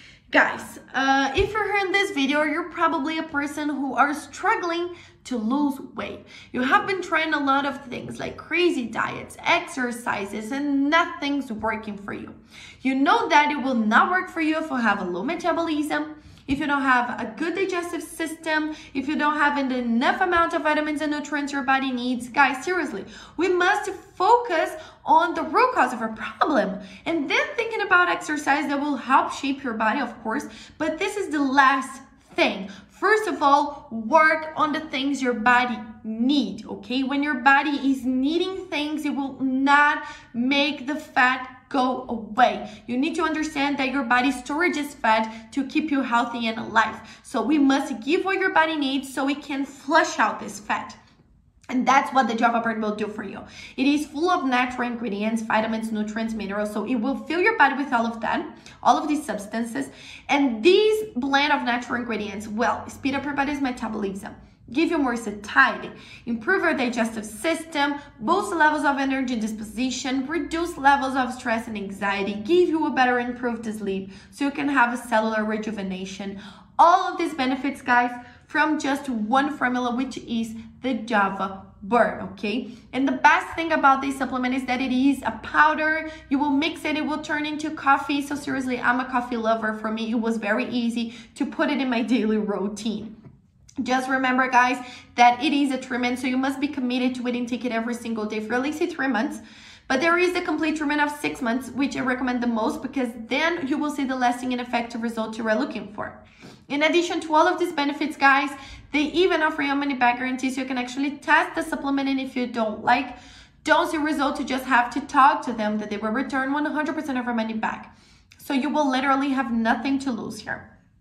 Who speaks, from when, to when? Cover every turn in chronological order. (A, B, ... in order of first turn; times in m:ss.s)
0:00.3-0:51.0 A
0:51.7-1:33.1 A
1:33.8-2:00.6 A